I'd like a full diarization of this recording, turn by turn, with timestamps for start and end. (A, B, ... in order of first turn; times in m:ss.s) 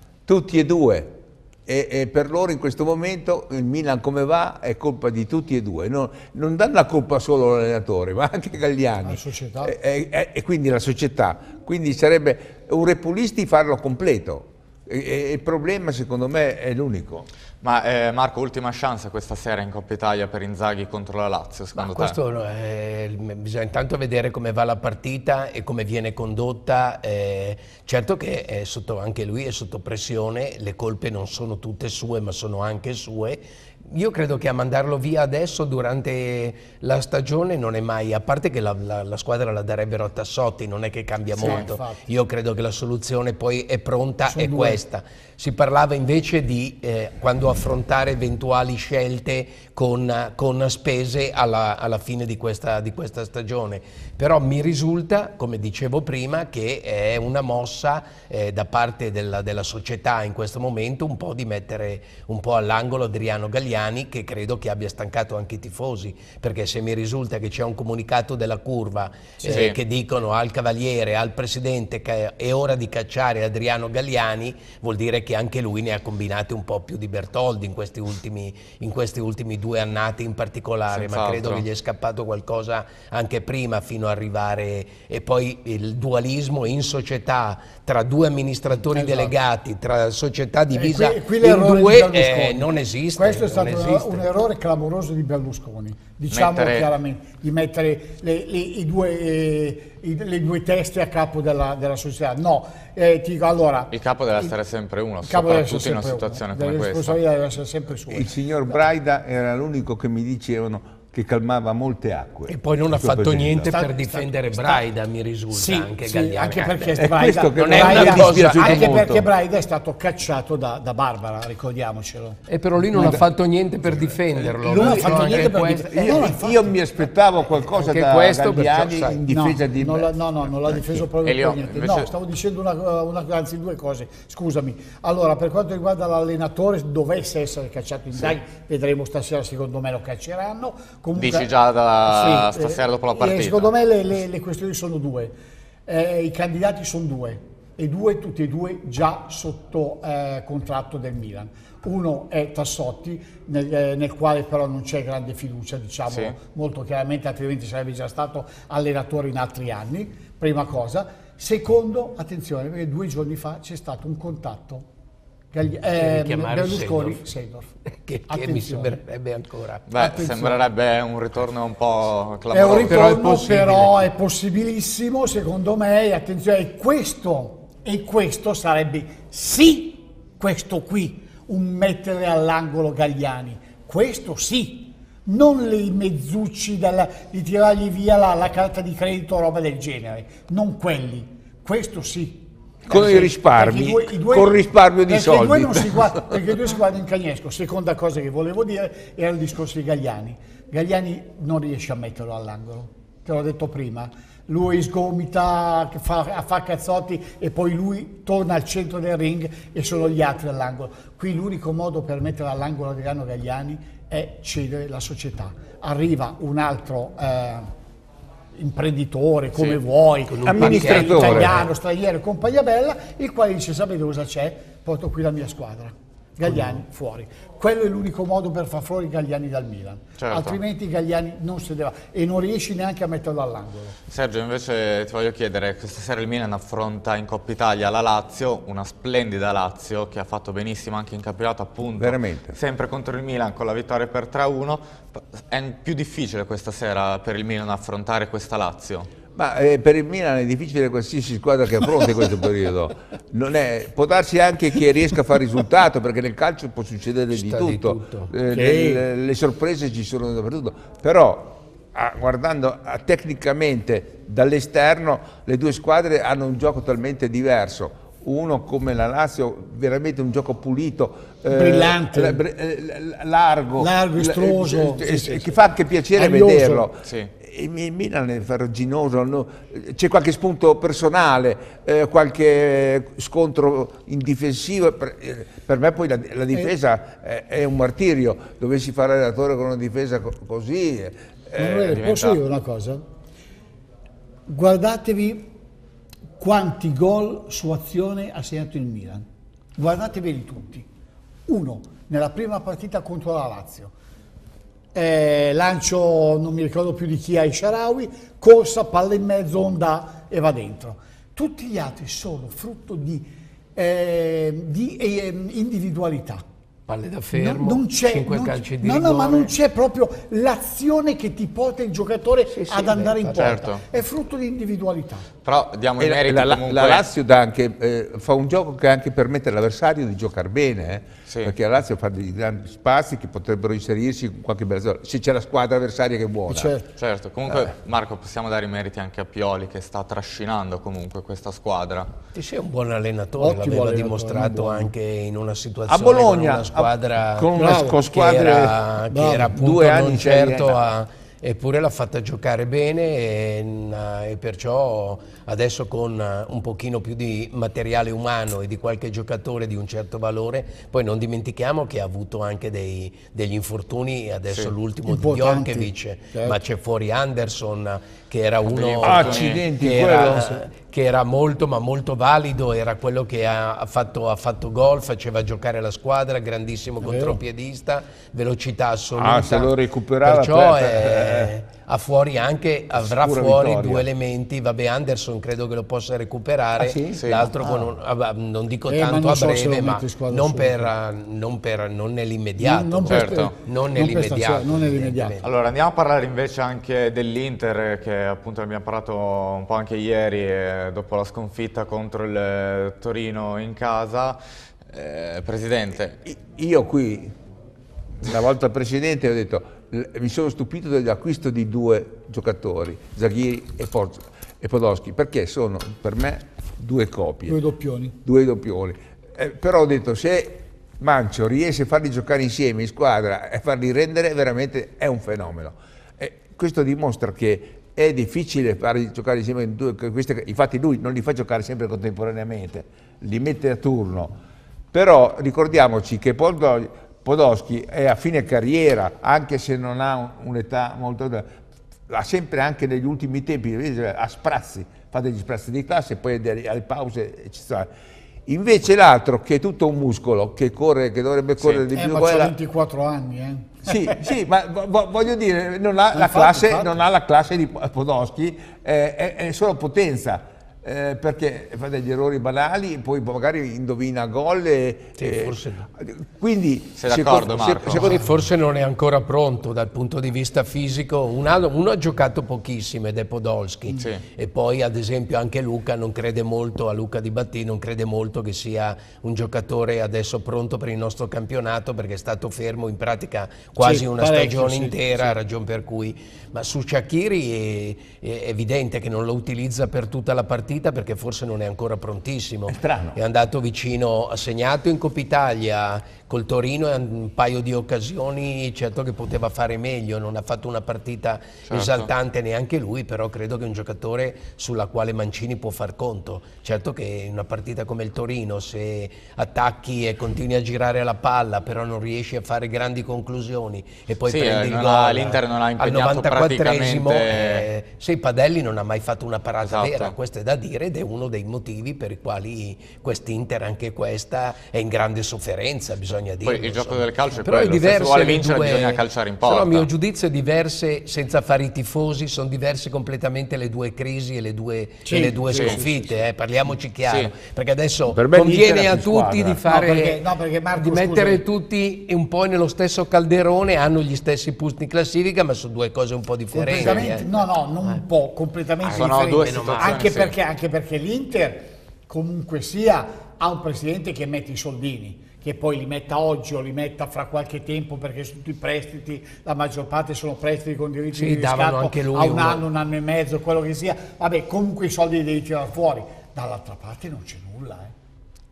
0:00.3-0:01.2 A
0:01.7-0:17.3 A
0:09.0-0:09.7 B
0:17.6-0:22.2 C
0:21.8-1:34.3 D
0:41.3-0:42.0 B
0:44.3-0:44.8 B
1:09.4-1:09.7 C
1:20.9-1:21.6 C
1:28.9-1:29.3 B
1:30.7-1:44.5 B
1:36.3-1:36.9 C
1:43.9-1:47.2 C
1:45.2-1:48.4 B
1:48.1-1:53.7 A
1:52.5-1:59.0 D
1:53.7-1:54.8 B
1:55.5-2:03.2 B
1:57.0-1:59.2 A
2:02.5-2:06.2 D
2:04.3-2:10.2 A
2:04.6-2:06.7 B
2:07.7-2:09.2 D
2:09.3-2:25.3 B
2:11.0-2:12.1 C
2:21.1-2:23.7 C
2:25.9-2:44.9 B
2:36.1-2:36.3 C
2:45.5-2:47.7 B
2:45.9-2:47.2 D
2:47.9-2:49.8 D
2:48.3-2:49.0 B
2:49.9-2:53.1 C
2:49.9-2:50.6 B
2:52.5-3:37.7 B
2:52.9-2:54.1 D
3:12.9-3:16.4 A
3:38.5-3:54.0 B
3:40.2-3:41.7 D
3:40.4-3:41.6 A
3:46.4-3:46.8 D
3:50.2-3:50.6 C
3:54.1-4:09.1 C
4:01.9-4:02.6 A
4:09.4-4:52.0 A
4:17.3-4:18.3 D
4:18.5-4:19.0 B
4:31.5-4:32.4 B
4:33.8-4:35.6 B
4:36.1-4:36.9 B
4:37.0-4:37.3 C
4:51.6-4:53.0 B
4:51.9-4:52.4 C
4:54.5-4:55.5 B
4:56.4-4:59.2 B
4:59.8-5:00.8 B
5:01.5-5:03.9 B
5:04.9-5:16.4 B
5:16.9-5:19.5 D
5:17.3-5:25.3 B
5:22.5-5:23.6 D
5:23.4-5:23.8 C
5:25.4-5:27.1 C
5:26.0-5:36.7 A
5:31.3-5:31.5 C
5:36.5-5:36.9 B
5:37.0-5:42.1 C
5:42.3-6:35.5 D
5:43.4-5:44.9 B
5:45.9-5:48.8 A
5:47.5-5:48.0 B
5:49.1-5:49.5 B
5:49.5-5:50.9 A
6:04.5-6:04.7 C
6:05.0-6:06.6 B
6:08.6-6:09.6 C
6:09.0-6:10.6 A
6:17.0-6:17.3 B
6:19.2-6:21.5 A
6:23.0-6:24.1 A
6:26.8-6:27.3 A
6:27.2-6:27.5 C
6:27.6-6:27.9 B
6:28.9-6:30.9 B
6:32.6-6:35.3 B
6:33.1-6:33.5 C
6:35.4-6:46.2 C
6:46.2-6:47.3 A
6:48.2-6:57.6 A
6:57.5-6:58.2 B
6:58.2-7:14.4 A
7:14.9-7:21.5 A
7:22.1-7:27.9 A
7:28.5-7:32.5 A
7:31.9-7:34.3 B
7:33.8-7:48.3 A
7:36.1-7:37.0 B
7:45.2-7:45.8 D
7:47.0-7:48.1 C
7:47.9-9:07.3 D
7:54.0-7:54.2 C
8:03.8-8:05.3 B
8:12.7-8:13.2 A
8:21.6-8:22.1 C
8:34.2-8:37.7 C
8:39.6-8:40.1 C
8:46.4-8:49.9 C
8:55.0-8:56.1 B
8:55.5-8:55.8 C
8:57.0-8:57.3 C
8:58.1-8:59.6 A
8:59.7-9:01.4 B
9:06.5-9:27.9 B
9:08.8-9:10.1 D
9:08.9-9:10.4 C
9:21.1-9:22.6 D